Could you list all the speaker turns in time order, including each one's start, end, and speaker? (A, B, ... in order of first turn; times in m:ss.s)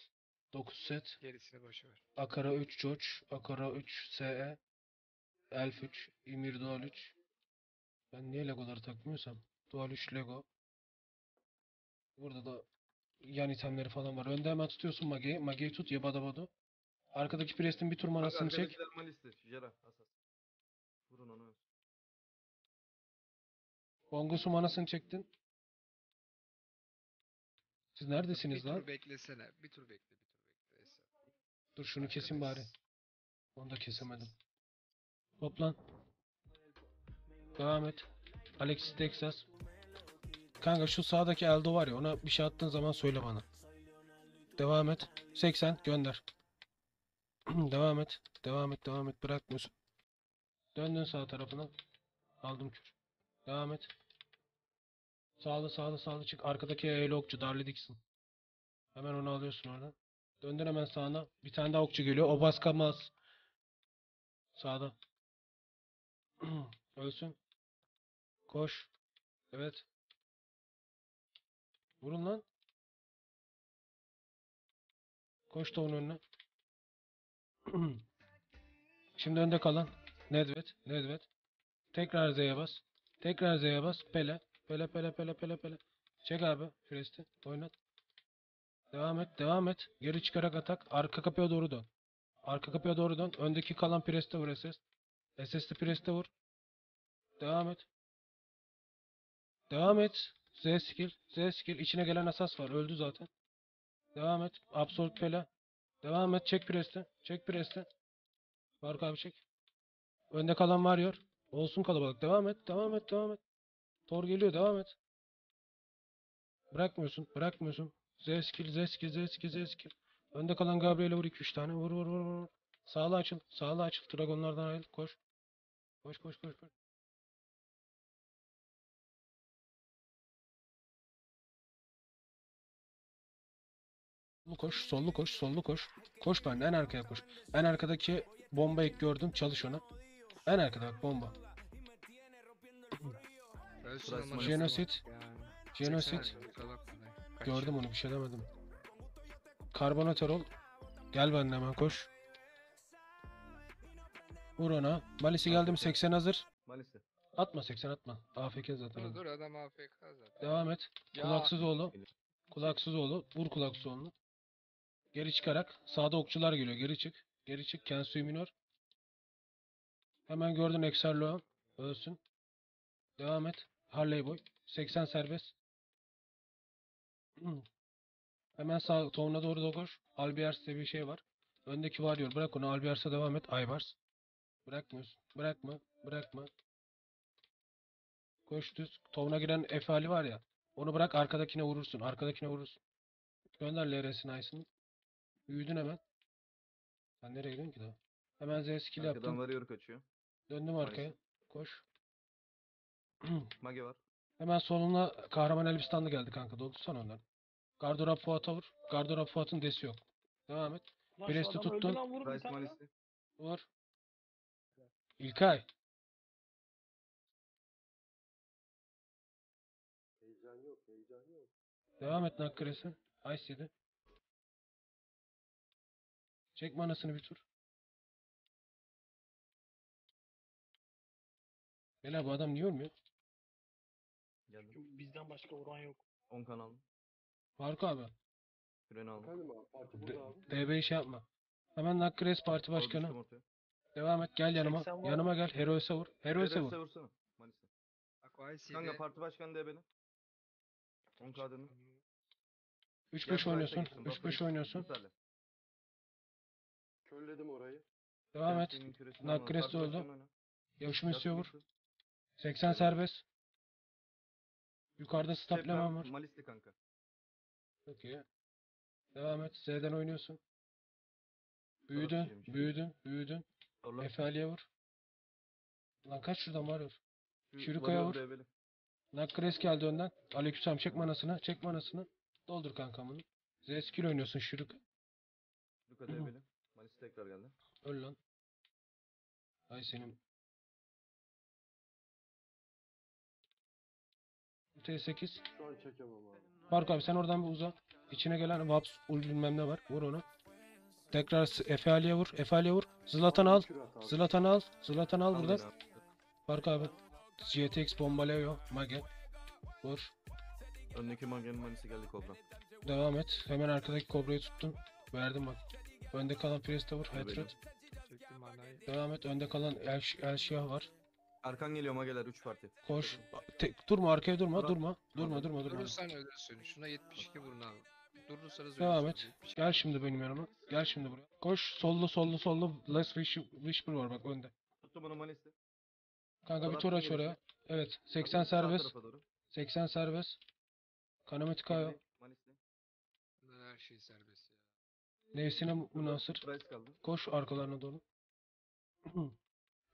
0:00.5-0:01.2 A
0:01.2-0:02.0 B
0:02.2-0:04.6 A
0:05.5-0:07.2 A
0:08.1-0:10.5 A
0:12.2-0:12.6 A
0:13.2-0:16.5 A
0:17.1-0:18.8 A
0:18.2-0:20.1 C
0:21.1-0:21.6 C
0:24.1-0:25.3 A
0:28.0-0:28.9 A
0:28.3-0:31.1 B
0:31.8-0:32.7 A
0:32.0-0:32.8 B
0:33.6-0:34.3 A
0:34.0-0:34.3 B
0:35.4-0:35.8 A
0:37.6-0:38.0 A
0:38.6-0:39.5 A
0:40.6-0:43.5 A
0:44.6-0:46.2 A
0:47.5-0:49.7 A
0:50.8-0:51.7 A
0:52.4-0:53.0 A
0:53.5-0:53.9 A
0:55.4-0:58.0 A
0:59.0-1:03.1 A
1:04.6-1:05.0 A
1:06.4-1:07.4 A
1:08.5-1:08.9 A
1:09.5-1:09.9 A
1:12.0-1:12.5 A
1:15.5-1:16.2 A
1:17.7-1:18.0 A
1:19.2-1:21.3 A
1:21.9-1:27.7 A
1:28.9-1:31.9 A
1:32.4-1:34.8 A
1:35.4-1:36.3 A
1:37.4-1:37.9 A
1:39.7-1:43.3 A
1:44.1-1:45.5 A
1:46.0-1:47.9 A
1:48.8-1:49.4 A
1:50.3-1:53.4 A
1:54.1-1:55.0 A
1:56.7-2:05.2 A
2:06.0-2:06.7 A
2:14.5-2:19.8 A
2:20.5-2:21.4 A
2:23.8-2:27.8 B
2:24.0-2:24.8 C
2:24.4-2:25.0 A
2:25.7-2:26.4 A
2:26.0-2:26.5 D
2:27.4-2:28.5 A
2:29.7-2:30.5 A
2:31.1-2:32.1 A
2:34.6-2:36.5 A
2:35.4-2:36.0 C
2:36.7-2:37.0 C
2:37.4-2:39.2 A
2:38.9-2:40.5 B
2:40.4-2:42.0 A
2:41.1-2:41.5 B
2:42.5-2:44.1 A
2:45.1-2:48.5 A
2:50.3-2:52.2 A
2:53.2-2:55.6 A
2:57.4-2:57.7 A
2:58.6-3:04.0 A
3:04.7-3:06.5 A
3:08.5-3:12.8 A
3:13.6-3:14.7 A
3:15.5-3:16.0 A
3:17.2-3:19.4 A
3:19.0-3:20.1 C
3:20.5-3:21.8 A
3:20.8-3:21.2 C
3:23.2-3:23.5 A
3:23.6-3:24.0 C
3:24.4-3:27.2 A
3:27.8-3:32.0 A
3:31.2-3:32.8 E
3:32.2-3:32.9 C
3:33.4-3:33.7 A
3:35.2-3:35.7 A
3:40.2-3:41.5 D
3:42.0-3:43.7 A
3:46.6-3:47.4 A
3:52.0-3:52.9 A
3:54.5-3:54.8 C
3:54.7-3:56.0 E
3:56.3-3:56.8 C
3:57.6-3:58.1 A
3:58.9-3:59.3 C
3:59.2-4:00.5 D
4:00.0-4:03.2 A
4:02.7-4:03.4 C
4:04.0-4:06.8 A
4:04.6-4:05.3 E
4:06.3-4:07.7 C
4:08.2-4:09.0 B
4:08.7-4:09.9 C
4:11.2-4:11.7 C
4:11.4-4:12.0 B
4:13.1-4:14.9 A
4:13.2-4:15.1 C
4:17.0-4:17.8 D
4:18.3-4:20.1 A
4:18.4-4:20.3 C
4:20.8-4:21.5 A
4:21.0-4:21.6 C
4:22.4-4:23.2 A
4:22.6-4:23.0 C
4:25.0-4:26.1 A
4:25.4-4:26.8 C
4:27.9-4:28.2 A
4:29.1-4:30.4 A
4:31.9-4:33.5 A
4:31.9-4:32.8 C
4:33.8-4:34.1 C
4:34.0-4:34.7 A
4:36.1-4:37.0 A
4:37.5-4:38.5 C
4:37.6-4:38.2 A
4:39.1-4:44.8 A
4:45.9-4:47.6 C
4:46.1-4:46.3 A
4:47.8-4:48.2 A
4:49.7-4:50.2 A
4:54.8-4:55.4 A
4:55.5-4:56.5 D
4:56.7-5:00.2 A
5:01.1-5:05.7 A
5:03.2-5:04.2 D
5:05.3-5:06.0 C
5:06.5-5:09.1 A
5:09.8-5:10.1 A
5:10.9-5:12.4 C
5:12.8-5:17.6 A
5:17.1-5:17.6 C
5:18.0-5:18.8 B
5:18.9-5:20.9 A
5:21.4-5:23.2 C
5:22.8-5:26.0 A
5:24.5-5:25.5 C
5:25.6-5:29.8 B
5:28.8-5:34.5 A
5:34.8-5:35.6 C
5:36.4-5:38.9 A
5:36.6-5:37.4 C
5:38.2-5:39.2 C
5:39.5-5:40.4 A
5:41.3-5:42.0 A
5:41.7-5:42.6 C
5:43.4-5:44.6 B
5:45.3-5:46.5 A
5:45.9-5:47.0 C
5:47.0-5:48.0 A
5:49.1-5:49.4 A